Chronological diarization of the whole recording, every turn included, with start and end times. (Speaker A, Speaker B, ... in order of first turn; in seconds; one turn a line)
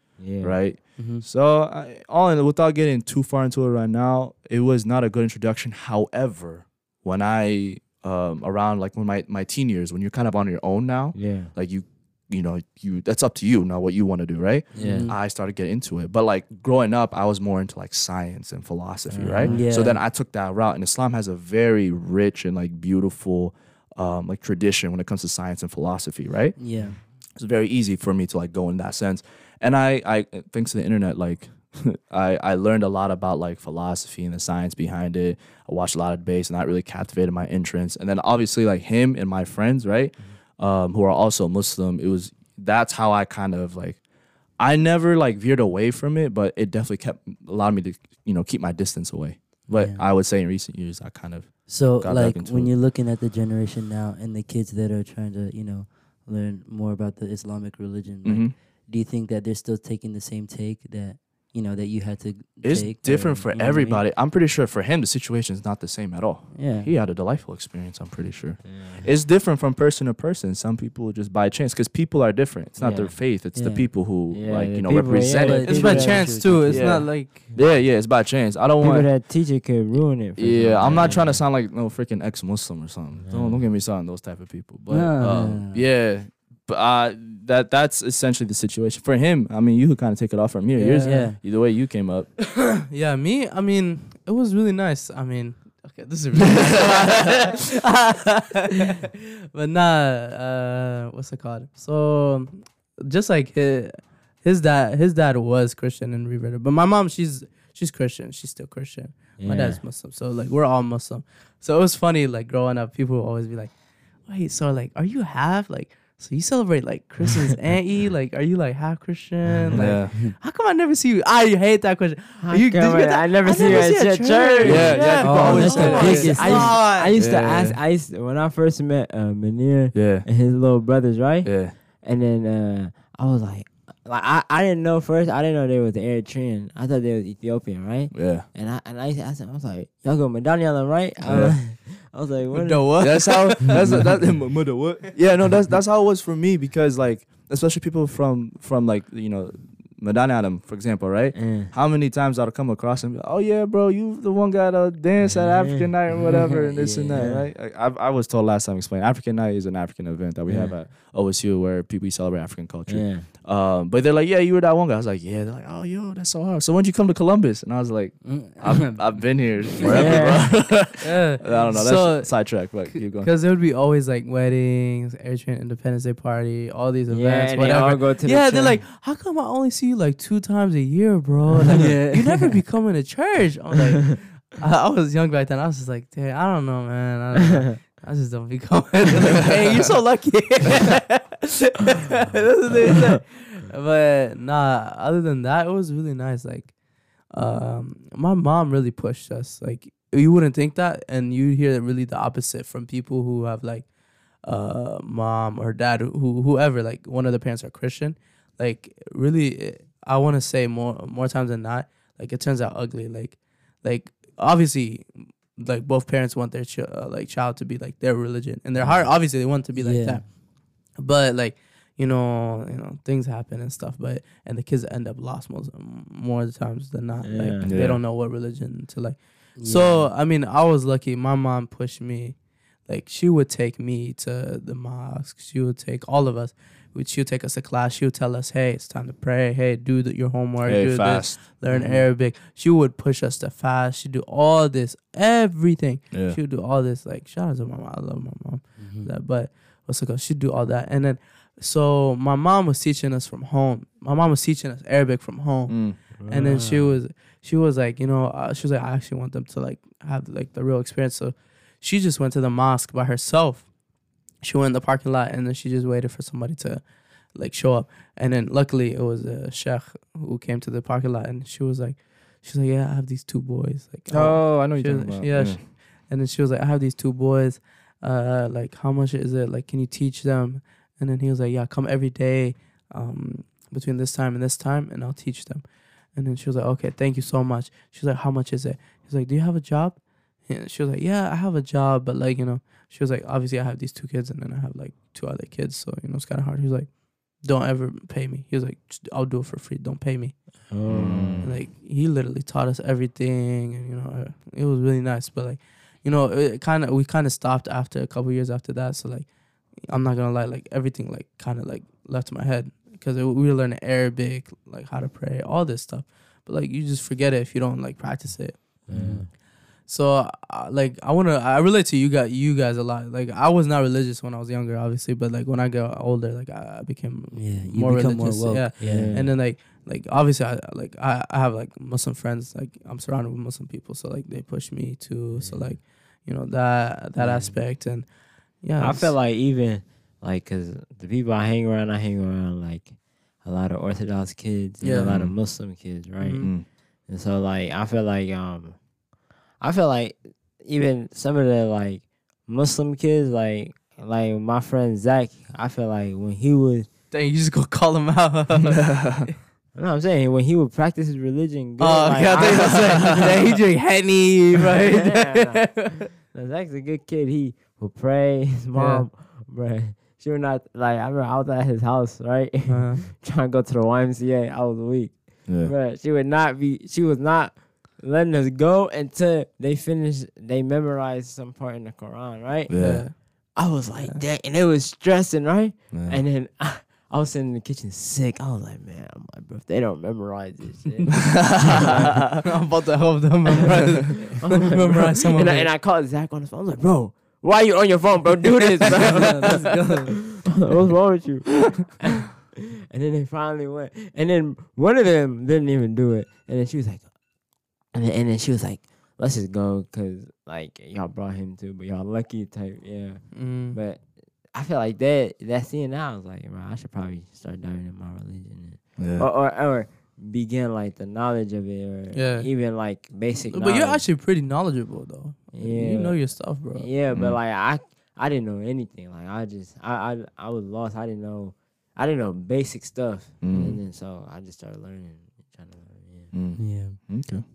Speaker A: 0.2-0.6
Speaker B: 0.3-26.7
Speaker C: 1.0-1.2
Speaker A: 11.1-11.5
Speaker C: 14.7-15.2
Speaker A: 14.7-15.1
Speaker C: 19.1-20.0
Speaker A: 19.3-19.6
Speaker C: 26.6-27.0
Speaker B: 27.4-44.0
Speaker B: 44.6-52.7
Speaker C: 49.7-50.0
Speaker C: 51.7-64.0
Speaker B: 58.2-58.5
Speaker B: 62.6-79.1
Speaker C: 66.5-66.9
Speaker A: 68.6-69.1
Speaker A: 72.8-73.2
Speaker C: 73.5-73.9
Speaker A: 74.3-76.4
Speaker C: 75.4-77.1
Speaker D: 75.6-77.5
Speaker A: 78.8-81.4
Speaker B: 80.3-92.3
Speaker A: 83.2-83.6
Speaker C: 84.9-85.8
Speaker D: 90.8-91.2
Speaker C: 91.0-91.4
Speaker D: 92.7-113.7
Speaker A: 109.4-109.8
Speaker D: 114.2-127.1
Speaker B: 119.7-120.1
Speaker A: 122.4-143.1
Speaker B: 124.6-126.4
Speaker C: 125.2-126.8
Speaker B: 127.1-127.8
Speaker B: 129.9-130.3
Speaker B: 131.4-131.7
Speaker B: 138.1-138.4
Speaker B: 141.2-141.7
Speaker D: 142.5-144.1
Speaker B: 143.0-173.3
Speaker A: 151.3-151.7
Speaker A: 155.2-155.9
Speaker C: 156.1-157.3
Speaker A: 157.1-157.5
Speaker A: 160.5-160.8
Speaker A: 162.9-163.3
Speaker C: 168.2-170.2
Speaker A: 169.8-170.6
Speaker D: 170.8-196.7
Speaker A: 177.1-178.8
Speaker C: 181.7-182.2
Speaker D: 197.3-203.9
Speaker D: 204.4-220.3
Speaker A: 218.8-219.1
Speaker C: 219.7-220.2
Speaker D: 220.9-263.7
Speaker A: 227.2-227.7
Speaker B: 227.6-228.0
Speaker C: 229.6-230.1
Speaker B: 240.6-241.4
Speaker C: 241.7-242.1
Speaker B: 246.1-246.4
Speaker C: 248.8-249.1
Speaker B: 255.7-256.0
Speaker A: 256.2-256.9
Speaker D: 264.4-266.8
Speaker D: 267.3-300.5
Speaker B: 274.1-275.6
Speaker A: 300.7-301.5
Speaker B: 300.9-301.6
Speaker D: 301.4-319.3
Speaker A: 318.9-319.3
Speaker C: 318.9-319.3
Speaker D: 319.9-338.1
Speaker C: 327.3-329.2
Speaker A: 328.8-329.3
Speaker A: 335.4-335.7
Speaker C: 337.2-337.6
Speaker D: 338.6-339.1
Speaker A: 338.8-346.5
Speaker D: 344.8-345.1
Speaker B: 345.0-345.4
Speaker D: 346.2-346.5
Speaker B: 346.4-346.6
Speaker A: 347.1-348.8
Speaker A: 349.6-356.9
Speaker D: 357.1-359.1
Speaker B: 358.8-359.3
Speaker A: 359.7-363.5
Speaker D: 361.8-366.0
Speaker B: 362.4-363.2
Speaker A: 364.8-392.3
Speaker D: 368.8-369.1
Speaker D: 372.7-373.1
Speaker B: 375.5-375.7
Speaker B: 382.7-383.1
Speaker D: 382.8-383.1
Speaker B: 385.9-386.2
Speaker B: 391.2-392.4
Speaker D: 392.4-395.7
Speaker A: 394.1-407.1
Speaker D: 399.0-399.6
Speaker C: 399.0-400.1
Speaker A: 407.9-424.0
Speaker D: 413.3-413.8
Speaker B: 419.0-419.3
Speaker D: 422.1-422.5
Speaker D: 423.5-426.9
Speaker A: 425.5-436.3
Speaker B: 427.1-427.4
Speaker B: 433.4-433.8
Speaker B: 436.3-437.4
Speaker C: 436.6-437.1